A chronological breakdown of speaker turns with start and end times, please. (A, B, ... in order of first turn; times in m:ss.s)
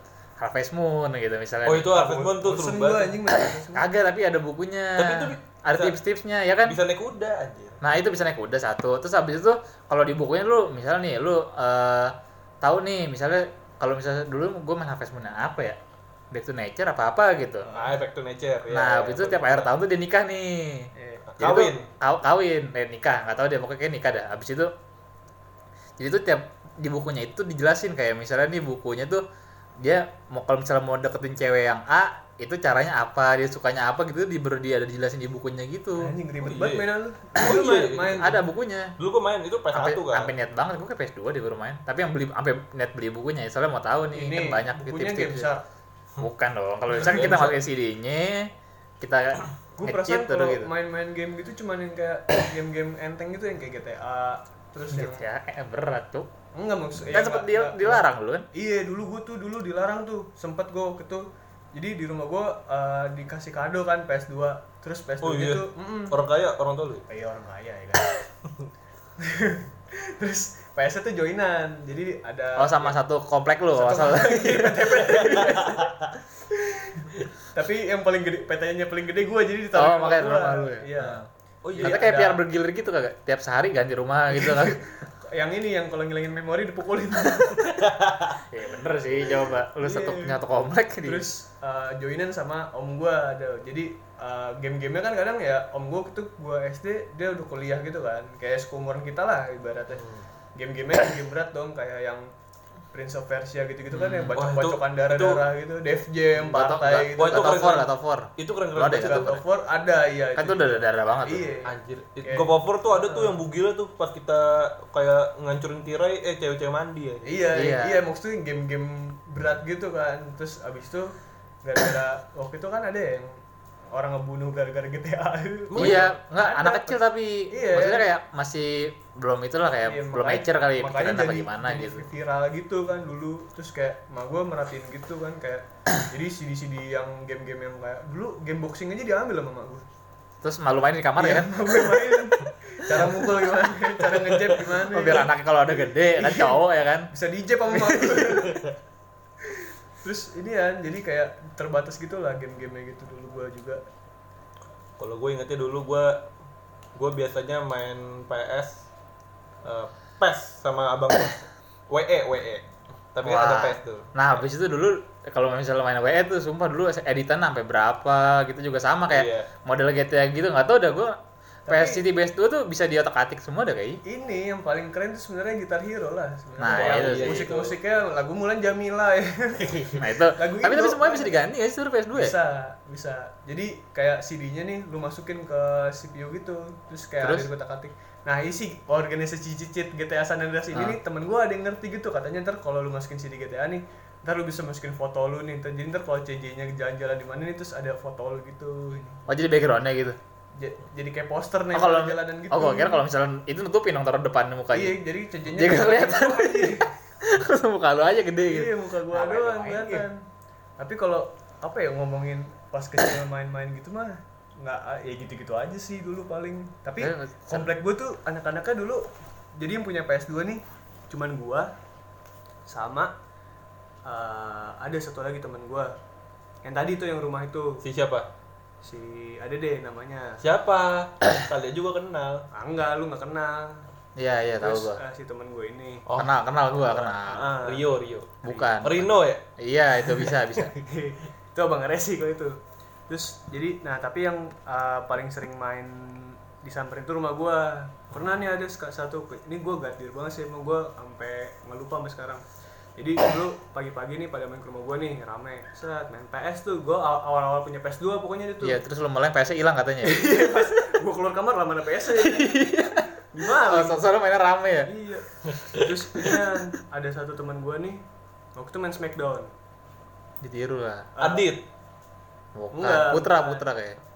0:00.4-0:02.0 A
0:01.6-0:03.2 B
0:01.9-0:03.9 C
0:03.7-0:06.8 A
0:05.0-0:06.0 B
0:06.6-0:07.8 B
0:07.8-0:15.8 A
0:16.3-0:17.7 A
0:17.6-0:17.9 C
0:17.7-0:19.7 B
0:18.7-0:24.7 A
0:20.9-0:21.2 C
0:21.3-0:21.9 B
0:26.0-0:29.2 A
0:29.8-0:36.1 A
0:36.0-0:38.4 C
0:36.4-0:38.4 B
0:38.1-0:39.0 A
0:39.0-0:40.3 B
0:39.7-0:45.5 A
0:44.1-0:45.6 C
0:46.2-0:50.7 A
0:46.9-0:47.6 C
0:49.8-0:55.2 C
0:54.9-0:56.3 A
0:56.5-1:06.2 C
0:57.1-0:58.4 A
1:05.2-1:07.0 B
1:07.1-1:08.2 C
1:09.2-1:13.0 C
1:12.6-1:15.5 A
1:13.7-1:21.2 C
1:15.4-1:16.1 B
1:19.8-1:21.3 A
1:21.6-1:22.0 B
1:21.7-1:22.4 C
1:21.8-1:25.0 A
1:24.3-1:27.7 C
1:27.7-1:28.3 B
1:28.5-1:31.2 A
1:29.2-1:30.4 C
1:31.0-1:42.2 C
1:40.0-1:40.2 B
1:42.9-1:47.9 C
1:43.9-1:44.3 A
1:44.3-1:45.4 B
1:46.4-1:49.4 A
1:47.2-1:47.8 B
1:48.4-1:49.4 B
1:49.0-1:53.4 C
1:50.4-1:51.6 A
1:51.6-1:57.3 B
1:57.2-2:01.1 C
1:57.5-1:58.0 A
2:01.6-2:03.4 C
2:03.9-2:08.0 C
2:05.7-2:06.1 B
2:05.8-2:12.0 A
2:09.8-2:19.8 C
2:20.4-2:22.0 A
2:21.2-2:25.3 C
2:24.9-2:27.1 A
2:26.2-2:26.6 C
2:27.1-2:28.6 C
2:27.7-2:28.4 A
2:29.5-2:33.8 C
2:35.0-2:36.2 B
2:36.9-2:38.8 B
2:39.6-2:44.4 B
2:43.2-2:51.2 A
2:49.1-2:49.5 B
2:51.7-2:52.0 C
2:51.7-2:54.0 A
2:54.0-3:01.4 C
2:56.6-2:57.5 A
2:56.7-2:57.8 B
2:59.6-3:00.0 B
3:00.0-3:02.3 A
3:02.1-3:19.2 C
3:07.2-3:07.5 A
3:10.7-3:11.0 A
3:19.3-3:20.2 A
3:20.6-3:23.0 C
3:21.7-3:30.0 A
3:24.7-3:26.9 C
3:28.5-3:30.2 C
3:30.8-3:41.7 C
3:37.0-3:37.7 A
3:42.7-3:43.1 C
3:44.0-3:45.9 C
3:46.6-3:47.8 C
3:47.8-3:48.3 B
3:48.8-3:50.4 C
3:50.4-3:52.4 B
3:52.5-3:53.8 C
3:54.2-3:55.0 A
3:54.6-3:56.0 C
3:56.0-3:59.4 B
3:56.2-3:57.6 A
3:57.0-3:58.7 C
3:58.4-4:00.7 A
4:00.0-4:00.3 B
4:00.7-4:02.6 C
4:03.1-4:12.4 C
4:13.0-4:18.8 C
4:18.6-4:20.5 A
4:20.0-4:24.0 C
4:22.2-4:23.0 A
4:23.7-4:24.9 A
4:24.8-4:28.0 C
4:25.4-4:25.8 B
4:28.6-4:29.5 C
4:30.4-4:31.1 A
4:31.2-4:31.5 C
4:31.2-4:31.6 B
4:32.5-4:34.0 A
4:32.7-4:33.6 C